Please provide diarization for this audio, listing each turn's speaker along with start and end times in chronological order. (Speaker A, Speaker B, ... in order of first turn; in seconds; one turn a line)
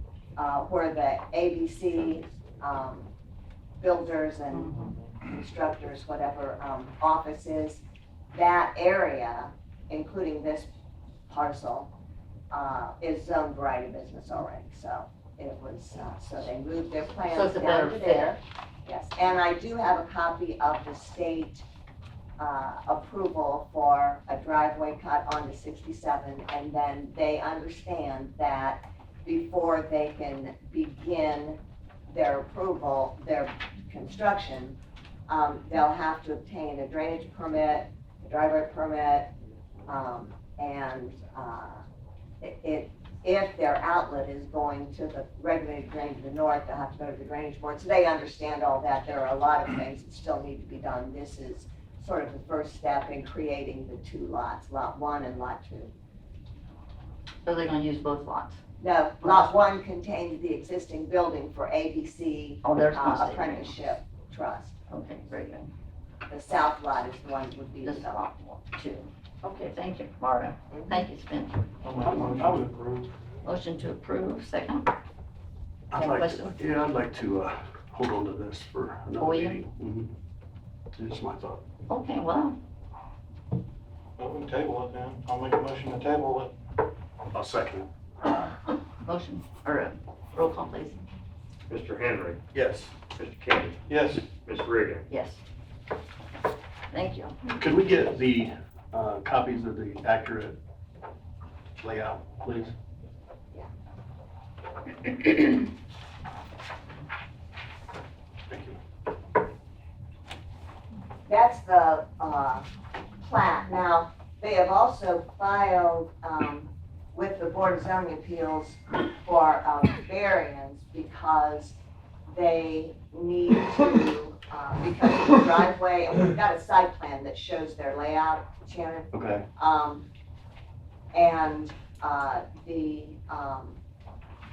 Speaker A: 0.4-3.1
Speaker A: 3.8-7.8
Speaker B: 4.5-4.8
Speaker A: 8.3-10.7
Speaker A: 11.3-11.9
Speaker A: 12.5-21.6
Speaker B: 17.3-18.4
Speaker A: 22.4-34.8
Speaker A: 35.3-39.3
Speaker A: 39.9-41.8
Speaker A: 42.4-55.9
Speaker B: 57.4-58.6
Speaker A: 58.8-64.8
Speaker B: 59.2-59.5
Speaker B: 62.6-63.8
Speaker B: 64.9-65.7
Speaker A: 66.3-68.2
Speaker B: 67.8-71.6
Speaker A: 70.7-71.0
Speaker C: 71.8-73.1
Speaker D: 72.0-72.8
Speaker B: 73.4-74.9
Speaker D: 75.9-80.1
Speaker B: 75.9-76.8
Speaker B: 79.2-79.6
Speaker D: 81.0-81.6
Speaker B: 81.9-82.5
Speaker C: 84.2-86.5
Speaker D: 87.3-87.9
Speaker B: 89.0-91.0
Speaker E: 91.7-92.4
Speaker D: 92.5-92.9
Speaker E: 93.1-93.8
Speaker C: 93.9-94.2
Speaker E: 94.4-95.0
Speaker B: 95.1-95.4
Speaker B: 96.9-97.3
Speaker D: 97.5-100.6
Speaker D: 101.8-102.7
Speaker D: 108.5-108.8
Speaker A: 111.3-112.7
Speaker A: 113.2-121.8
Speaker A: 122.3-130.1
Speaker D: 129.1-129.4
Speaker A: 131.1-133.8